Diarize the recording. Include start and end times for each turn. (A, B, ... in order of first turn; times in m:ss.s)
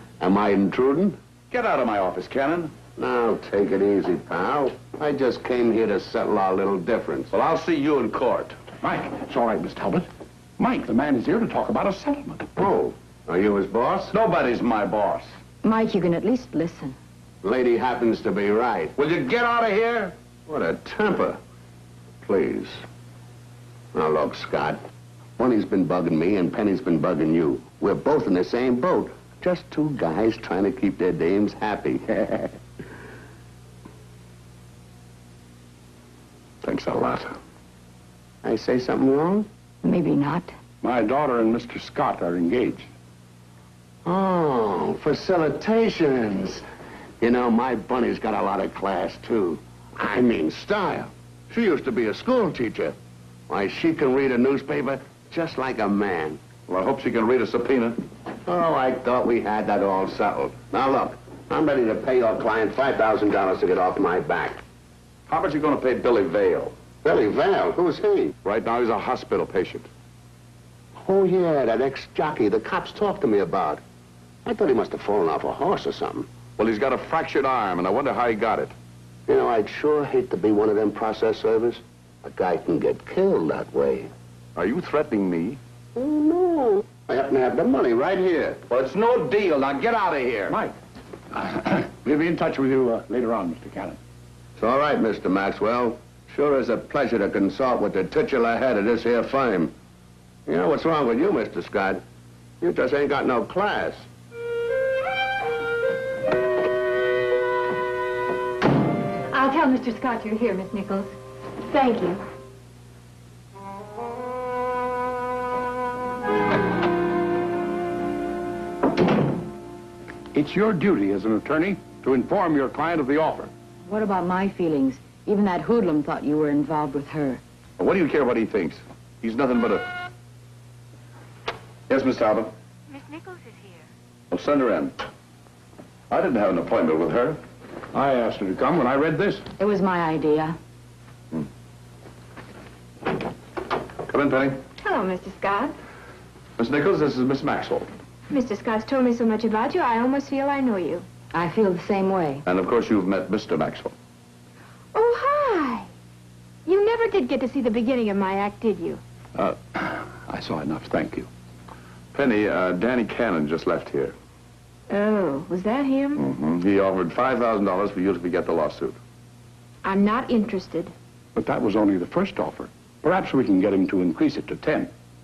0:00.2-0:01.2 A
0:01.5-0:02.7 B
0:03.0-0:07.3 A
0:07.3-0:08.6 B
0:08.8-0:10.1 C
0:10.6-0:12.5 C
0:12.6-0:14.1 A
0:14.1-0:15.4 B
0:15.6-0:17.0 D
0:17.4-0:19.0 A
0:19.0-0:21.0 B
0:20.5-0:21.4 A
0:22.2-0:22.8 A
0:23.9-0:24.8 A
0:25.4-0:32.5 A
0:36.6-0:37.3 B
0:38.4-0:39.5 A
0:39.8-0:40.5 D
0:40.8-0:42.9 C
0:44.0-0:46.6 A
0:47.2-0:53.0 A
0:53.5-0:56.4 A
0:56.7-0:58.0 B
0:58.5-1:04.6 A
1:05.3-1:06.8 B
1:07.0-1:08.3 A
1:08.4-1:09.9 B
1:11.0-1:13.8 A
1:14.4-1:16.3 A
1:16.6-1:18.8 B
1:19.3-1:24.1 A
1:24.6-1:25.6 B
1:26.0-1:28.6 A
1:28.7-1:30.6 B
1:31.4-1:34.0 C
1:34.6-1:39.7 A
1:40.5-1:42.0 A
1:42.6-1:44.1 A
1:49.3-1:51.1 D
1:51.7-1:52.2 E
2:00.3-2:03.5 C
2:03.9-2:07.4 D
2:07.8-2:09.9 B
2:11.9-2:12.5 B
2:14.3-2:15.0 B
2:16.1-2:17.4 B
2:17.9-2:19.4 C
2:19.6-2:20.6 D
2:24.1-2:24.6 B
2:24.8-2:25.7 E
2:26.6-2:27.9 B
2:28.3-2:31.0 E
2:31.3-2:32.4 D
2:32.4-2:34.0 B
2:34.9-2:35.9 E
2:36.6-2:39.0 E
2:39.4-2:41.3 C
2:42.1-2:44.2 B
2:44.9-2:46.2 E
2:46.2-2:49.0 B
2:49.8-2:50.9 E
2:51.4-2:54.9 C